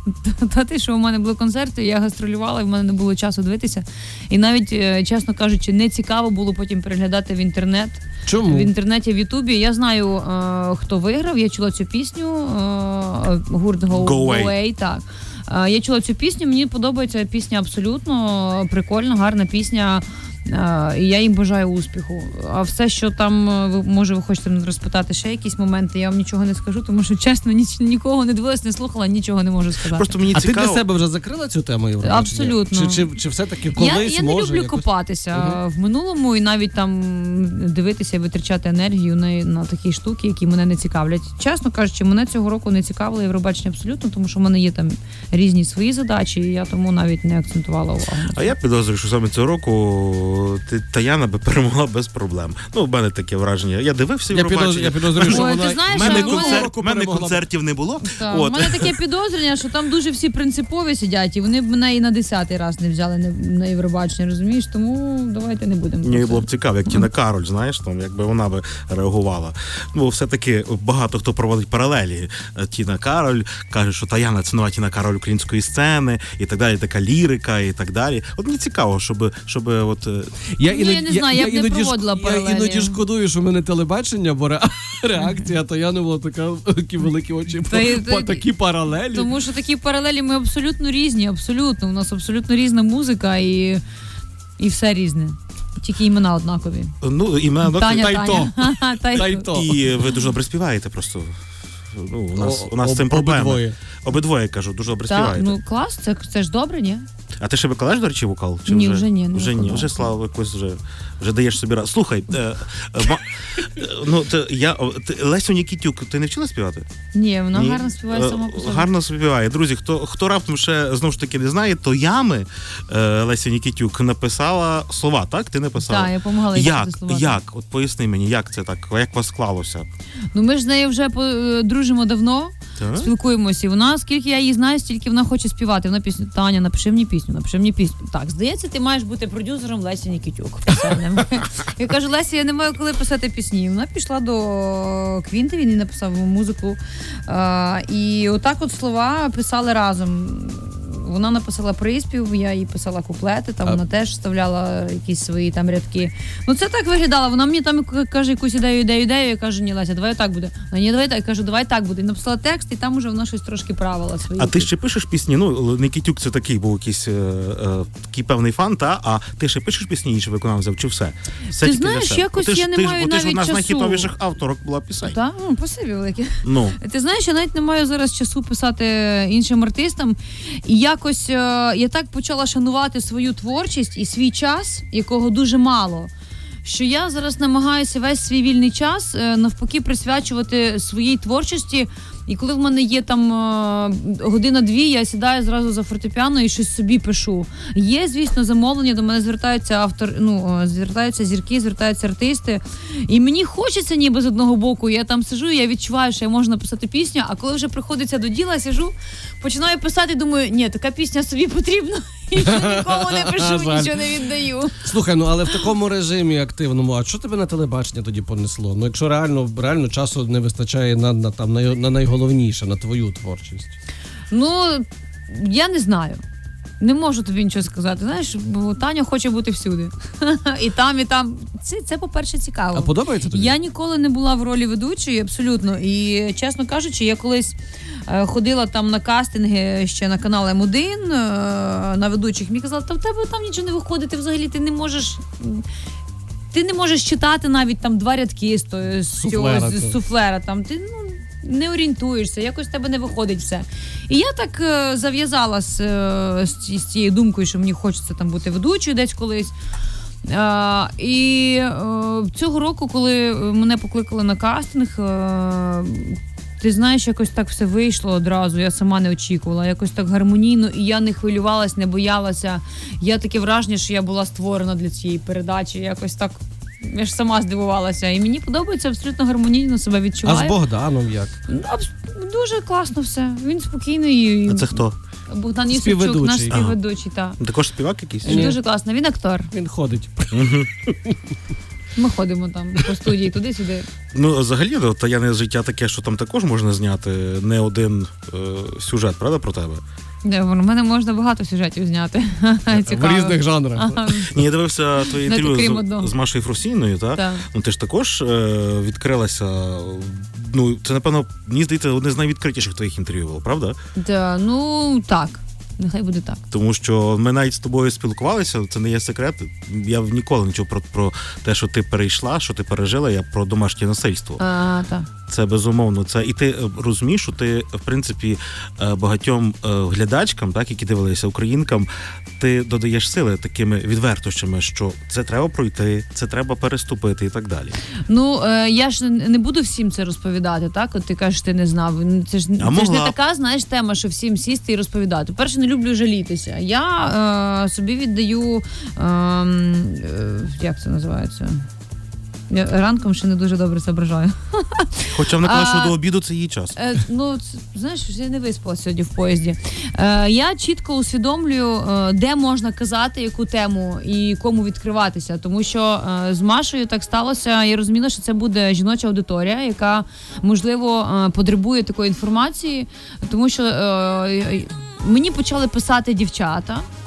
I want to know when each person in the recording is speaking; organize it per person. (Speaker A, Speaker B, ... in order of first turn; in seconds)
Speaker A: 0.2-30.2, 32.0-33.1, 33.8-48.5, 55.2-56.7, 58.0-67.1, 80.7-83.0, 87.7-88.5, 89.1-93.8, 94.6-97.0, 97.6-99.6, 105.1-107.1, 108.7-110.1, 117.1-118.9, 125.8-127.4, 130.3-164.7, 171.5-174.1, 175.0-186.1, 186.6-214.7, 224.3-226.2, 226.8-237.6, 238.1-245.7, 246.5-259.5, 260.2-280.6, 281.5-287.4, 288.2-289.5, 292.0-293.9, 300.2-304.4, 305.0-306.1, 307.1-307.4, 314.0-316.4, 324.4-325.1, 338.1-351.6, 352.5-356.0, 356.8-376.9
Speaker B: 8.3-8.7, 30.3-34.8, 35.3-35.6, 54.3-57.4, 80.6-89.3, 98.0-99.8, 102.4-103.8, 212.4-214.0, 214.8-223.7, 232.7-233.6, 249.2-250.0, 280.2-281.3, 285.7-286.6, 288.3-288.6, 289.5-290.5, 302.7-304.0
Speaker C: 13.9-14.6, 29.9-30.8, 48.3-58.9, 66.0-80.5, 97.0-98.5, 99.2-101.3, 101.9-105.5, 107.4-116.9, 117.5-129.9, 132.8-133.1, 164.4-175.2, 176.4-176.8, 284.5-284.9, 286.5-286.8, 287.4-288.6, 290.3-290.7, 294.1-299.8, 304.2-313.8, 316.5-324.4, 325.3-337.8, 342.6-343.1, 355.1-356.8